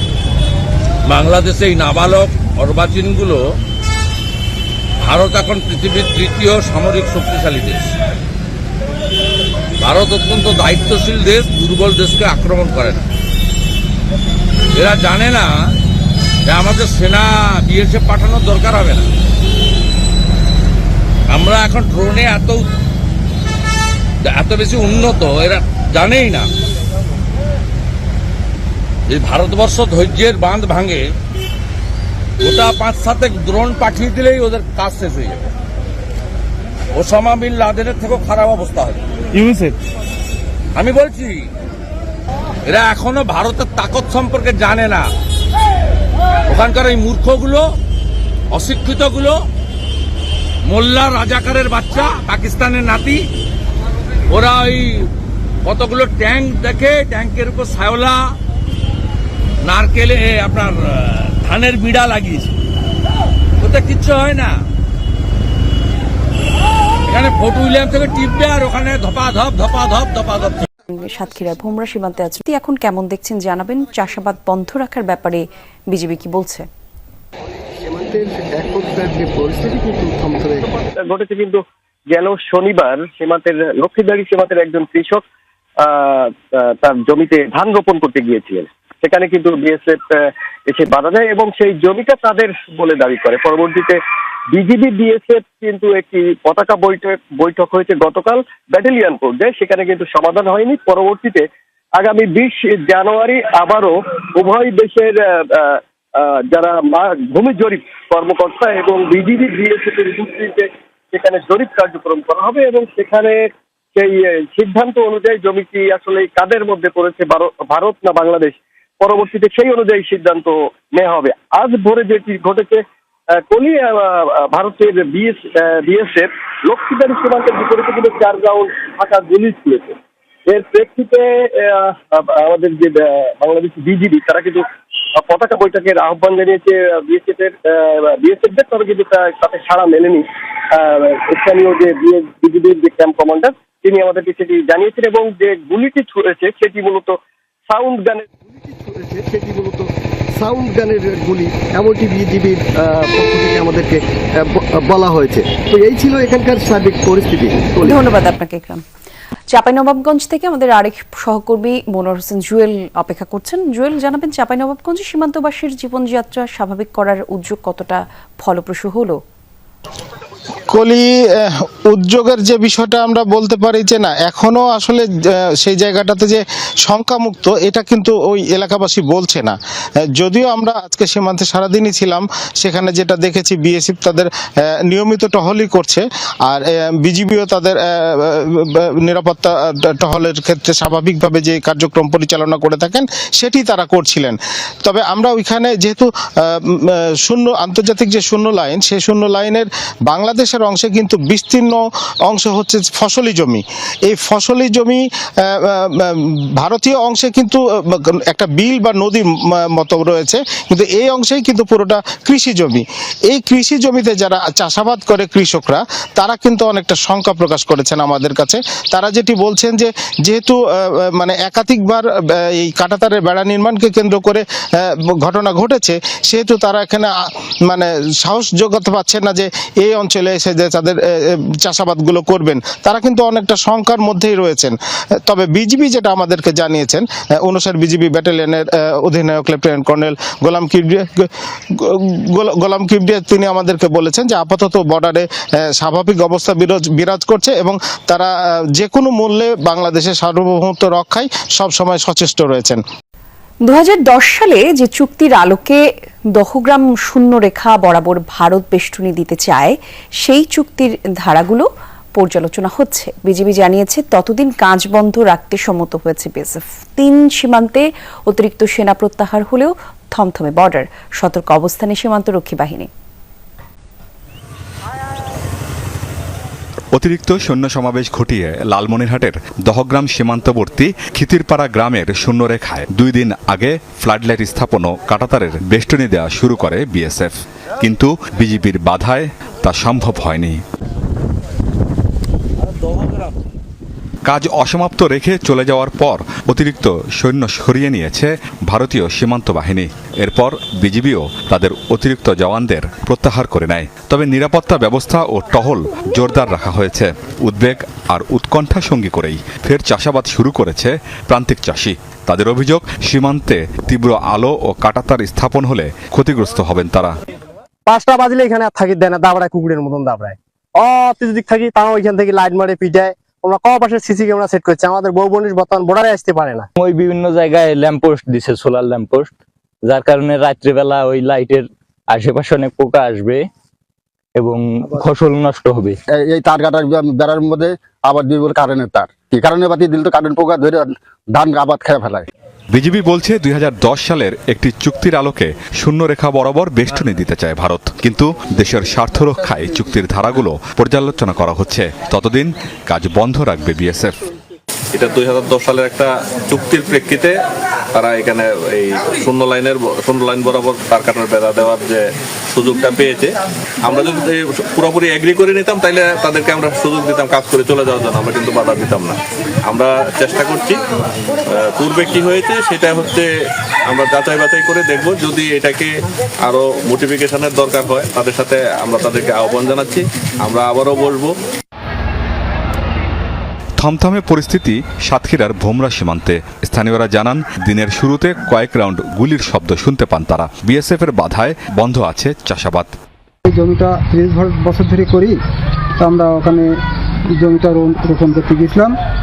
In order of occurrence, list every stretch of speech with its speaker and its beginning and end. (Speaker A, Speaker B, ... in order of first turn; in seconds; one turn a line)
Speaker A: 1.1-3.4
Speaker A: 5.0-7.9
Speaker A: 9.8-13.0
Speaker A: 14.7-15.6
Speaker A: 16.5-19.1
Speaker A: 21.3-22.7
Speaker A: 24.2-26.5
Speaker A: 29.1-31.1
Speaker A: 32.4-35.5
Speaker A: 36.9-39.7
Speaker A: 40.8-41.5
Speaker A: 42.7-45.1
Speaker A: 46.5-47.7
Speaker A: 48.5-49.4
Speaker A: 50.7-53.3
Speaker A: 54.3-55.1
Speaker A: 55.6-58.4
Speaker A: 59.6-62.5
Speaker A: 63.6-64.5
Speaker A: 67.1-70.7
Speaker B: 70.9-76.7
Speaker C: 77.9-80.7
Speaker D: 80.9-81.6
Speaker D: 82.1-85.2
Speaker D: 85.9-86.3
Speaker D: 86.8-90.0
Speaker D: 90.7-94.0
Speaker D: 94.5-101.4
Speaker D: 102.0-105.8
Speaker D: 106.5-113.4
Speaker D: 114.0-122.8
Speaker D: 123.5-130.0
Speaker D: 130.5-134.7
Speaker D: 135.2-140.2
Speaker D: 140.8-147.1
Speaker D: 147.7-148.2
Speaker C: 148.5-158.0
Speaker B: 157.8-158.8
Speaker B: 159.5-169.2
Speaker E: 170.7-175.1
Speaker E: 175.6-179.6
Speaker E: 180.2-184.3
Speaker E: 184.9-196.6
Speaker E: 197.2-220.6
Speaker E: 221.1-227.1
Speaker E: 227.7-231.0
Speaker E: 231.6-234.8
Speaker E: 235.3-241.3
Speaker E: 242.3-245.3
Speaker E: 245.8-252.8
Speaker B: 253.7-255.8
Speaker B: 256.4-272.9
Speaker F: 276.9-290.6
Speaker A: 292.8-293.3
Speaker F: 294.2-317.2
Speaker G: 317.9-326.6
Speaker H: 326.8-329.3
Speaker H: 329.9-333.4
Speaker H: 334.4-336.0
Speaker I: 336.1-342.3
Speaker F: 342.7-354.2
Speaker J: 354.9-357.3
Speaker J: 358.0-362.0
Speaker J: 362.6-363.3
Speaker J: 363.8-369.1
Speaker J: 369.7-370.7
Speaker J: 371.8-373.2
Speaker J: 373.9-375.9
Speaker J: 376.5-381.3
Speaker F: 383.8-392.9
Speaker K: 393.5-395.4
Speaker K: 396.0-396.8
Speaker K: 397.3-399.0